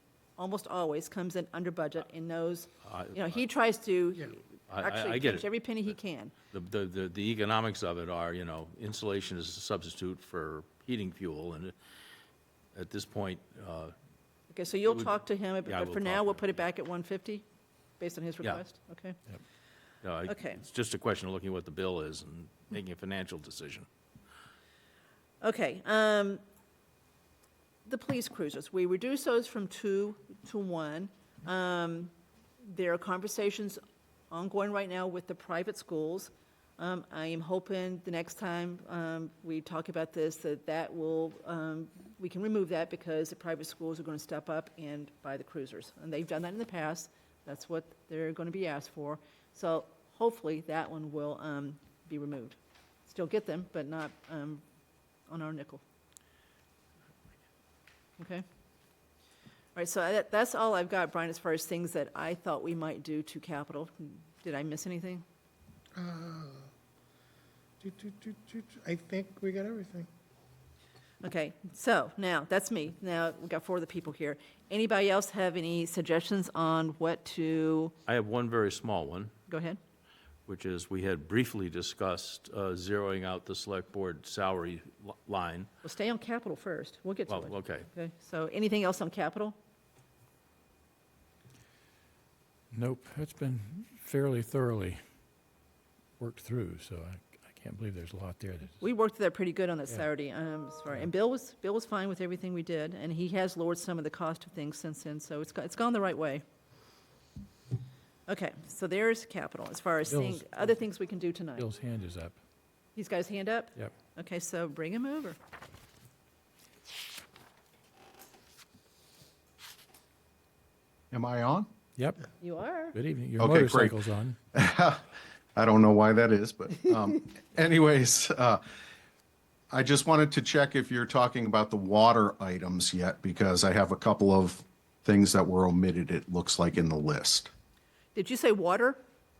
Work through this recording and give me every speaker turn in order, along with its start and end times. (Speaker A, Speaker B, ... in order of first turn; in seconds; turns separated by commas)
Speaker A: 0.4-6.3, Speaker B: 2.8-3.4, Speaker B: 4.7-5.5, Speaker B: 6.5-11.7, Speaker B: 12.7-13.9, Speaker A: 14.5-17.4, Speaker B: 15.7-16.4, Speaker A: 18.0-19.2, Speaker B: 20.0-23.9, Speaker A: 20.3-20.6, Speaker A: 25.4-26.4, Speaker A: 27.9-32.1, Speaker A: 32.6-33.8, Speaker A: 34.3-54.6, Speaker A: 55.3-55.8, Speaker A: 58.2-58.4, Speaker A: 59.7-65.2, Speaker C: 66.0-66.7, Speaker C: 67.8-70.1, Speaker A: 71.2-77.9, Speaker B: 78.0-79.3, Speaker A: 79.5-79.8, Speaker B: 80.5-85.7, Speaker A: 85.8-89.5, Speaker B: 87.3-87.9, Speaker D: 92.7-95.0, Speaker D: 96.2-98.8, Speaker A: 98.8-106.4, Speaker A: 108.3-111.7, Speaker D: 110.1-110.6, Speaker D: 111.6-112.4, Speaker A: 112.9-115.4, Speaker E: 121.1-121.7, Speaker D: 122.0-122.2, Speaker A: 122.4-123.0, Speaker D: 122.9-124.4, Speaker E: 123.4-124.0, Speaker E: 124.5-128.6, Speaker E: 129.7-137.5, Speaker A: 138.1-139.0